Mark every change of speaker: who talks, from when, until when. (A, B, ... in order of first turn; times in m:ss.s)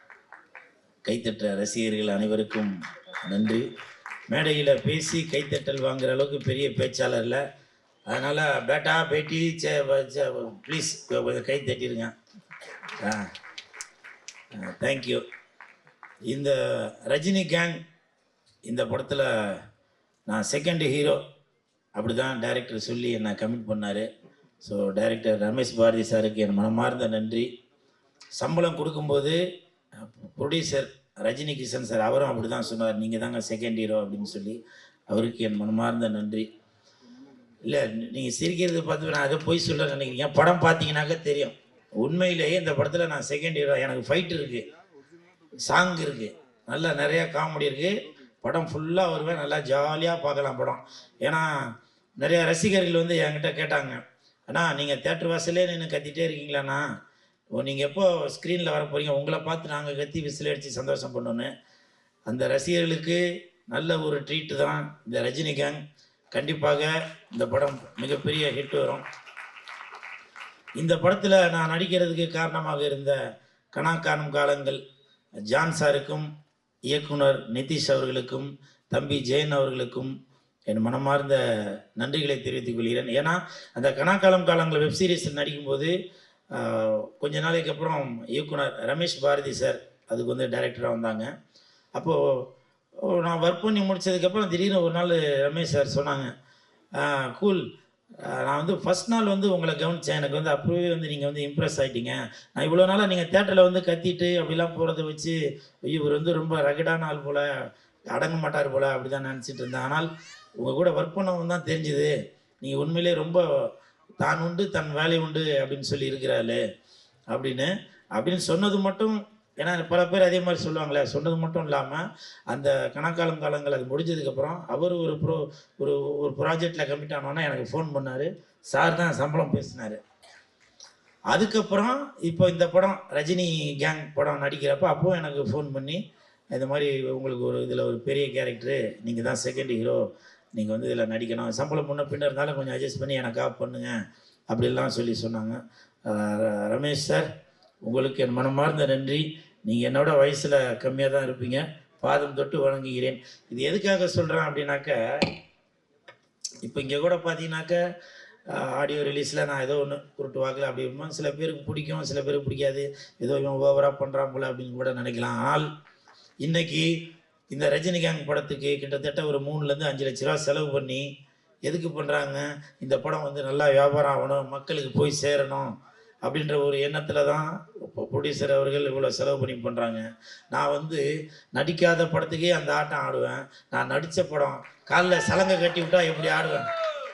0:01.0-0:02.7 A
0:03.2-0:03.6 A
0:04.3-0:07.4 A
0:08.1-0:12.1 A
0:13.0-0:13.2 A
0:14.6-0:15.2 A
0:16.3-0:17.8 A
0:18.7-0:19.3 A
0:20.3-0:21.2 A
0:22.0-0:24.1 A
0:24.6-0:27.5 A
0:28.4-0:29.4 A
0:30.4-0:36.5 A
0:37.7-0:44.6 A
0:45.6-0:51.5 A
0:52.2-0:54.0 A
0:54.5-0:56.8 A
0:57.6-1:01.5 A
1:02.3-1:05.8 A
1:06.3-1:09.0 A
1:10.8-1:13.2 A
1:13.7-1:14.8 A
1:15.5-1:16.3 A
1:16.9-1:20.1 A
1:20.7-1:21.4 A
1:22.0-1:25.9 A
1:26.6-1:31.3 A
1:33.1-1:36.3 A
1:37.0-1:37.6 A
1:38.3-1:47.4 A
1:48.1-1:50.1 A
1:50.6-1:53.4 A
1:54.2-1:56.6 A
1:57.3-2:10.0 A
2:11.3-2:16.0 A
2:16.5-2:20.0 A
2:20.6-2:23.9 A
2:24.5-2:27.3 A
2:27.8-2:35.0 A
2:36.6-2:37.8 A
2:38.5-2:45.7 A
2:46.4-2:46.9 A
2:47.5-2:51.0 A
2:51.7-2:55.7 A
2:56.2-3:01.0 A
3:01.5-3:06.6 A